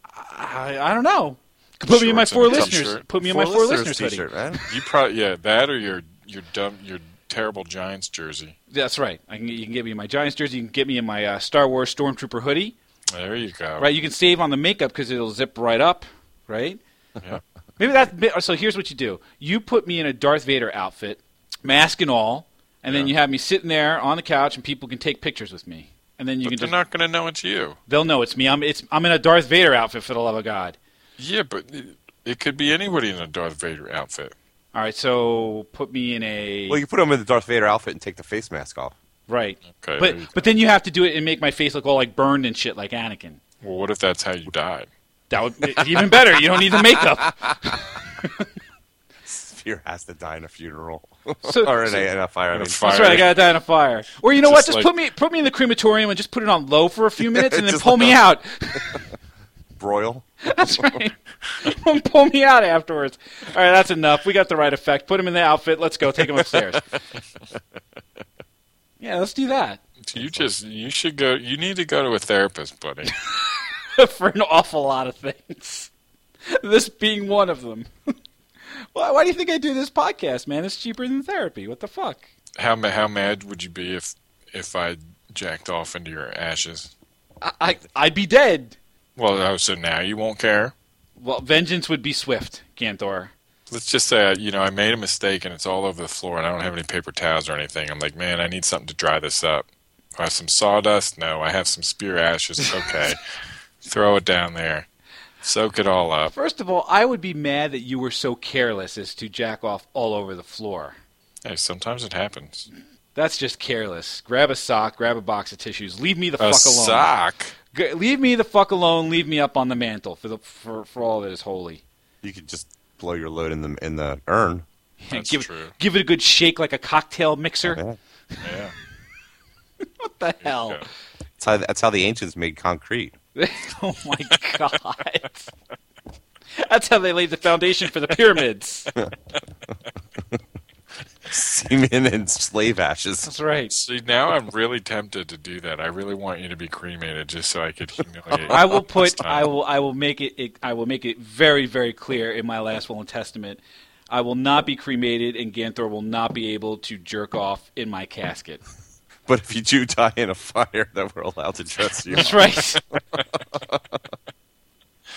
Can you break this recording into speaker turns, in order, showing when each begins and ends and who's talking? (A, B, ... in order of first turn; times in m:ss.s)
0:00.1-0:04.3 A
0:01.9-0:03.0 B
0:02.4-0:04.6 C
0:04.6-0:08.6 B
0:08.7-0:12.8 A
0:13.1-0:13.8 B
0:13.8-0:16.8 A
0:17.8-0:26.8 A
0:22.9-0:23.1 B
0:26.4-0:27.8 B
0:27.9-0:30.8 A
0:31.2-0:34.3 B
0:34.7-0:36.8 A
0:36.7-0:38.9 C
0:39.3-0:43.4 A
0:39.7-0:40.5 B
0:43.6-0:44.9 B
0:45.3-0:48.5 A
0:49.2-0:53.3 C
0:51.4-0:52.0 A
0:52.5-0:53.4 B
0:52.8-0:59.1 A
0:54.4-0:54.9 B
0:57.2-0:58.2 C
0:59.8-1:01.0 C
1:00.4-1:06.8 A
1:09.0-1:09.8 A
1:10.0-1:13.2 B
1:10.2-1:10.5 C
1:13.2-1:15.9 A
1:16.5-1:18.1 A
1:18.9-1:22.3 A
1:22.6-1:26.9 B
1:27.4-1:28.8 A
1:29.2-1:30.7 B
1:31.2-1:33.3 A
1:33.7-1:43.2 B
1:43.8-1:44.9 B
1:45.4-1:46.3 B
1:46.3-1:51.0 A
1:51.4-1:52.7 B
1:53.1-1:57.1 A
1:56.4-1:57.5 B
1:57.7-2:01.8 A
2:02.2-2:04.6 C
2:05.0-2:07.8 A
2:05.1-2:05.7 B
2:07.6-2:08.0 C
2:08.4-2:08.7 B
2:09.8-2:10.8 A
2:10.4-2:10.8 B
2:11.4-2:13.2 C
2:13.3-2:15.5 A
2:16.5-2:18.9 A
2:21.2-2:23.3 C
2:23.2-2:23.7 A
2:23.7-2:29.5 B
2:28.4-2:38.6 A
2:39.2-2:44.0 C
2:42.1-2:42.8 A